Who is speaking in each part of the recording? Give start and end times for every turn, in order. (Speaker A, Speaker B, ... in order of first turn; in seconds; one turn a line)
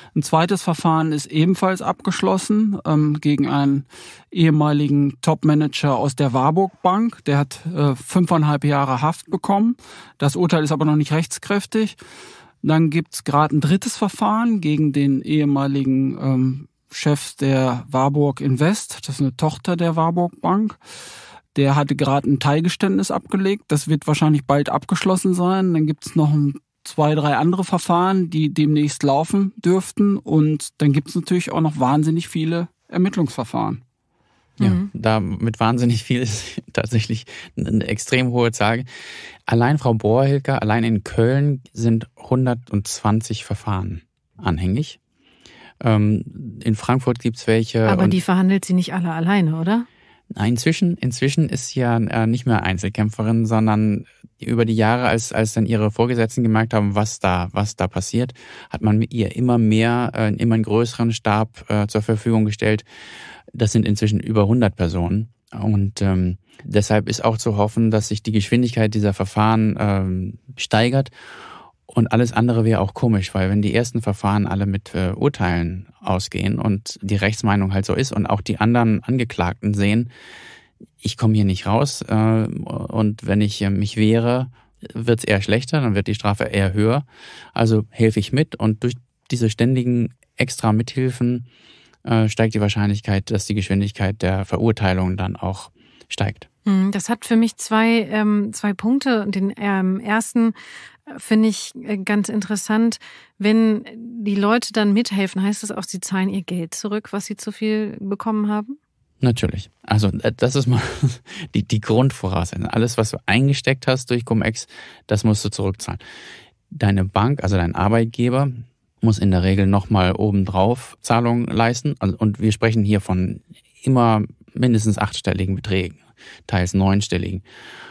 Speaker A: 0.1-12.0
Speaker A: 12.6-20.8
Speaker A: 21.6-33.8
Speaker B: 34.6-38.9
Speaker C: 34.6-34.9
Speaker B: 39.5-45.0
Speaker B: 45.8-48.2
Speaker C: 47.9-49.9
Speaker B: 50.3-62.9
Speaker B: 63.5-71.1
Speaker B: 71.9-80.1
Speaker B: 81.0-91.5
Speaker B: 92.0-96.5
Speaker C: 96.7-100.5
Speaker C: 101.1-108.8
Speaker B: 109.2-116.0
Speaker B: 116.7-127.4